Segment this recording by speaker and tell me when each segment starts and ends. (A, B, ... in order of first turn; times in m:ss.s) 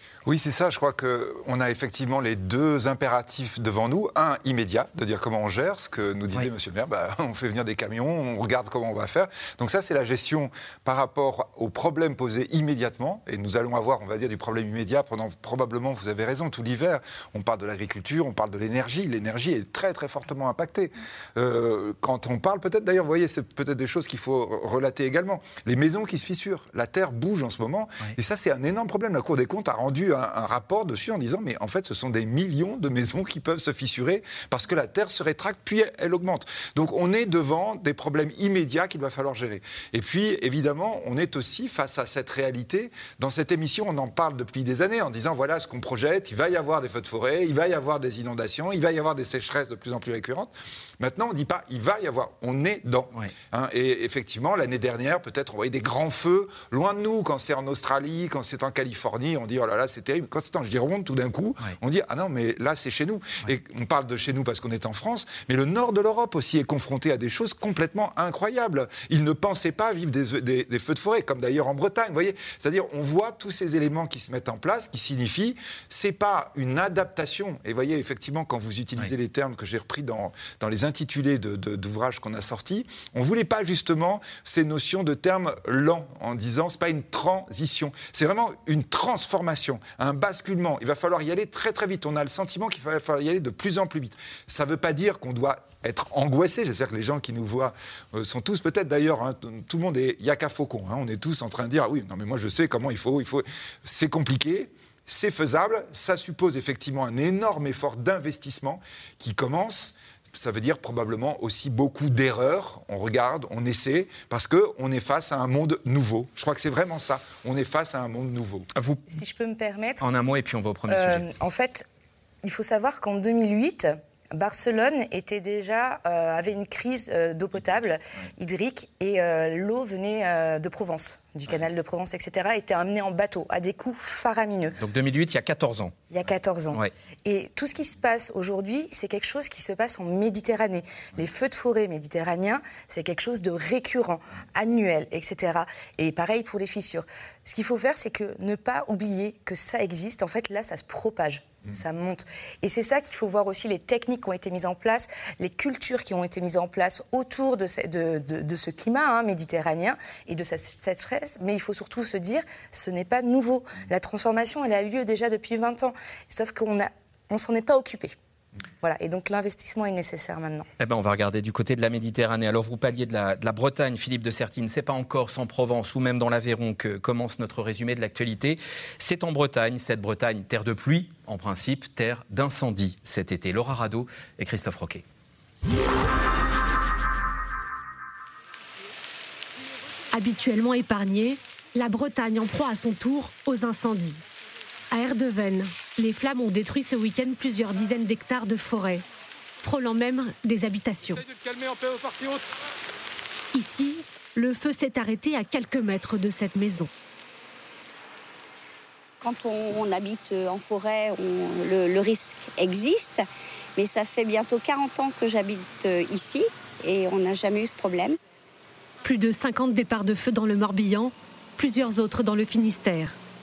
0:00.3-1:58.7 A
1:58.8-1:59.0 B
1:59.1-2:00.1 C
2:00.0-2:01.3 B
2:00.9-2:01.9 C
2:02.4-2:14.8 C
2:14.8-2:16.1 B
2:16.1-2:48.2 C
2:48.8-2:50.7 C
2:50.8-3:05.0 B
3:10.1-3:14.2 D
3:14.9-3:19.0 D
3:19.6-3:21.3 D
3:23.5-3:26.9 D
3:29.2-3:33.2 E
3:33.8-3:38.2 E
3:39.0-3:43.2 D